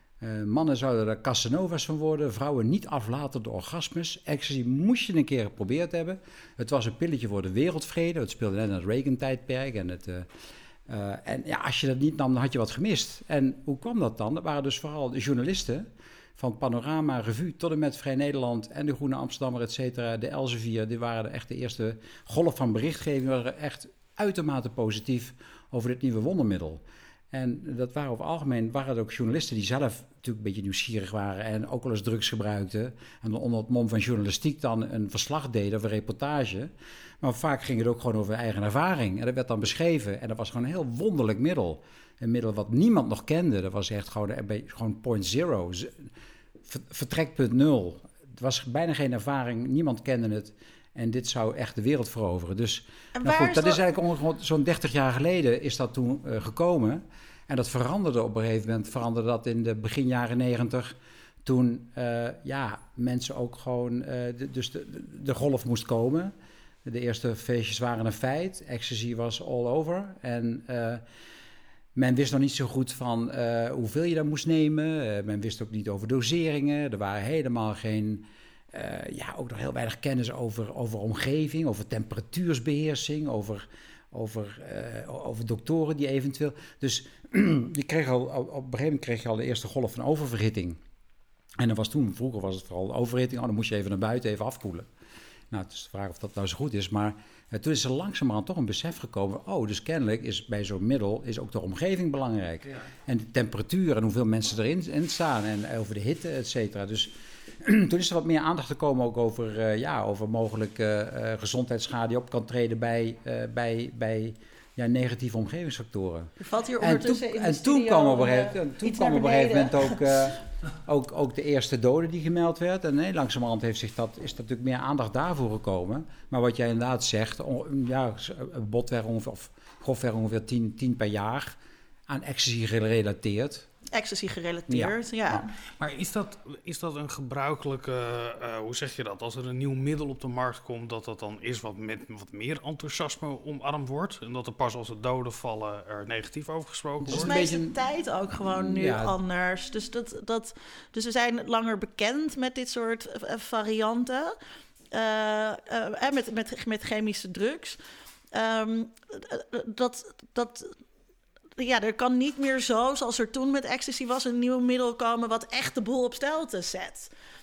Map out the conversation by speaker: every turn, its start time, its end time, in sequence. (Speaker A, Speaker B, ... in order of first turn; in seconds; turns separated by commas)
Speaker A: 0.2-10.3, Speaker A: 10.9-46.1, Speaker A: 46.7-66.3, Speaker B: 53.2-53.8, Speaker A: 66.8-71.0, Speaker A: 72.0-90.8, Speaker A: 91.6-94.9, Speaker A: 95.5-133.7, Speaker B: 116.4-120.0, Speaker B: 133.9-135.5, Speaker A: 134.7-135.5, Speaker C: 135.8-147.3, Speaker A: 147.0-147.8, Speaker B: 147.1-154.3, Speaker A: 148.4-149.2, Speaker B: 154.9-157.8, Speaker B: 158.3-160.7, Speaker B: 161.6-167.1